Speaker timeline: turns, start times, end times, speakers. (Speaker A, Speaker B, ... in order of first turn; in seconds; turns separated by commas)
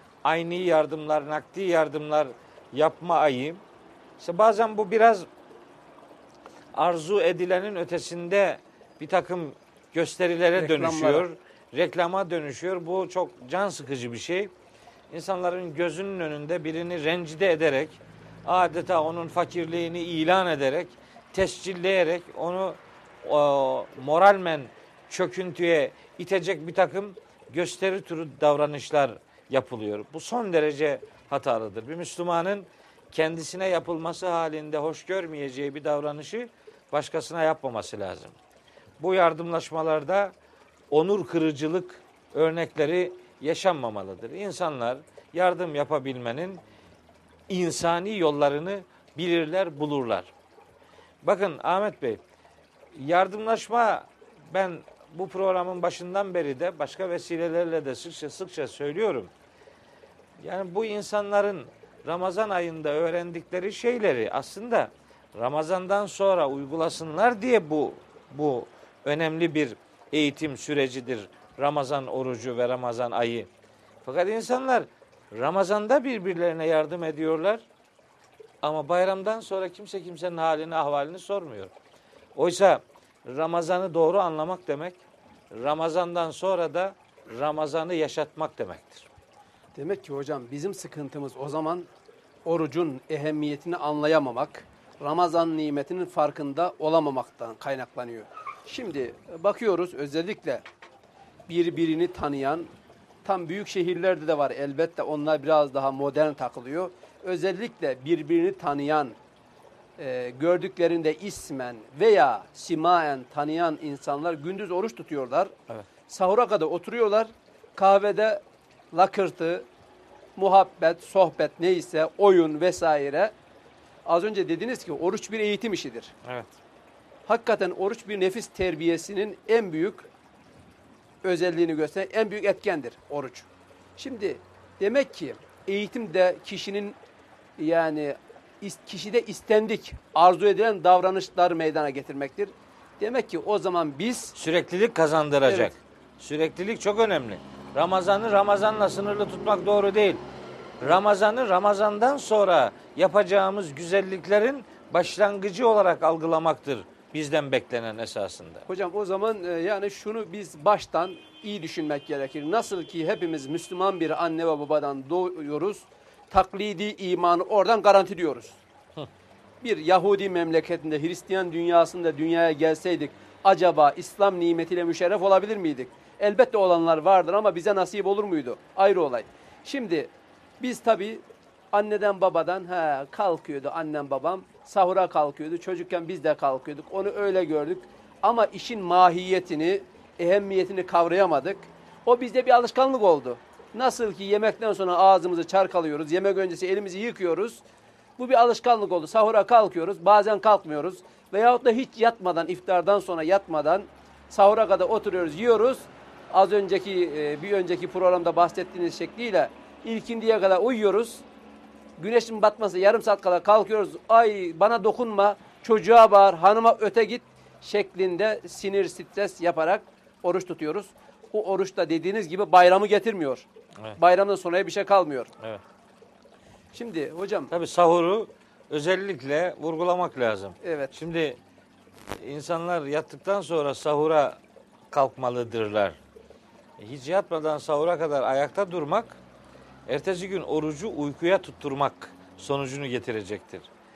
Speaker A: 0.2-3.6, Speaker A: 4.2-5.2, Speaker A: 6.7-14.5, Speaker B: 10.6-11.2, Speaker A: 15.1-38.4, Speaker A: 39.0-40.3, Speaker A: 40.9-46.6, Speaker A: 47.5-50.3, Speaker A: 51.2-52.2, Speaker A: 52.9-59.3, Speaker A: 60.4-73.5, Speaker A: 74.0-77.6, Speaker A: 78.6-81.7, Speaker A: 82.3-85.0, Speaker A: 85.5-89.1, Speaker B: 89.8-91.9, Speaker B: 92.5-100.6, Speaker B: 101.5-102.7, Speaker B: 103.2-109.2, Speaker B: 110.0-115.5, Speaker B: 116.1-119.7, Speaker B: 120.4-123.3, Speaker B: 124.1-126.1, Speaker A: 126.2-126.5, Speaker B: 127.3-130.1, Speaker B: 131.2-133.5, Speaker B: 134.0-137.0, Speaker B: 137.6-144.4, Speaker A: 144.4-150.2, Speaker B: 145.5-145.7, Speaker A: 150.8-158.7, Speaker B: 158.7-168.6, Speaker B: 169.6-197.6, Speaker B: 198.2-211.2, Speaker B: 212.0-225.3, Speaker B: 226.7-227.5, Speaker A: 227.5-231.4, Speaker B: 230.6-231.0, Speaker A: 232.2-234.4, Speaker A: 234.9-236.0, Speaker A: 236.8-239.2, Speaker A: 239.9-243.7